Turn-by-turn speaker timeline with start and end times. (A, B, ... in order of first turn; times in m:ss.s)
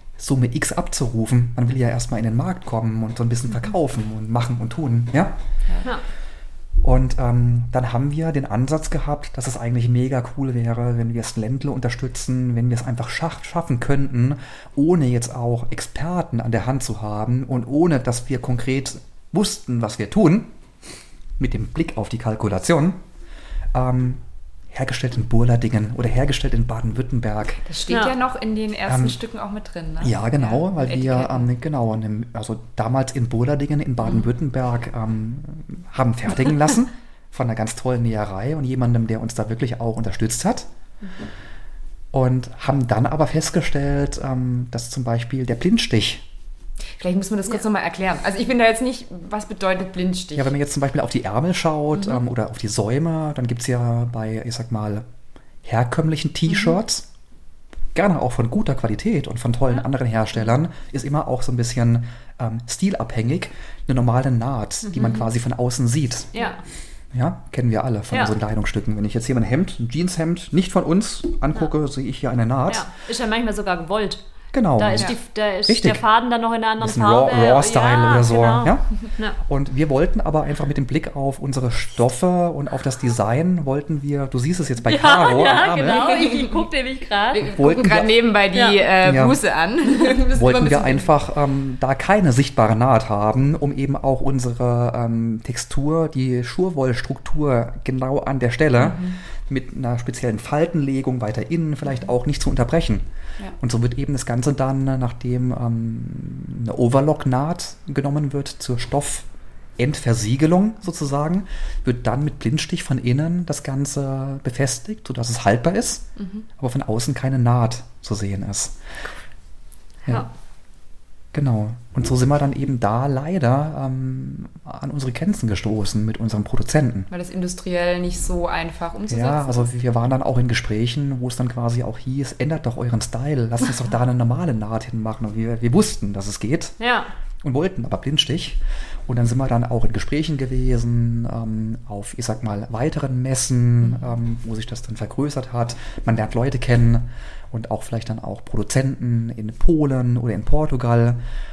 0:00.2-0:05.4 A
0:06.8-0:20.5 A
0:21.4-0:23.0 A
0:23.7-0:27.6 A
0:27.7-0:31.5 B
0:28.9-0:29.2 A
0:30.0-0:40.7 A
0:34.0-0:34.3 B
0:42.1-0:46.2 A
0:47.0-0:50.5 B
0:50.3-0:55.0 A
0:52.0-0:52.2 B
0:55.6-0:57.0 A
0:57.9-1:06.3 A
1:04.8-1:05.3 B
1:07.1-1:12.9 A
1:12.7-1:14.2 C
1:14.5-1:15.1 A
1:14.8-1:19.4 C
1:15.7-1:16.0 A
1:16.8-1:18.9 A
1:19.4-1:26.0 A
1:24.8-1:27.5 C
1:25.8-1:26.6 B
1:27.3-1:31.1 B
1:27.6-1:28.1 A
1:28.5-1:28.8 C
1:29.0-1:29.4 A
1:30.3-1:43.0 A
1:38.8-1:39.2 B
1:43.6-1:56.0 A
1:56.2-1:56.4 B
1:56.6-1:58.8 A
2:01.3-2:07.1 A
2:07.1-2:09.8 B
2:09.1-2:16.8 A
2:16.8-2:17.1 C
2:17.4-2:31.2 A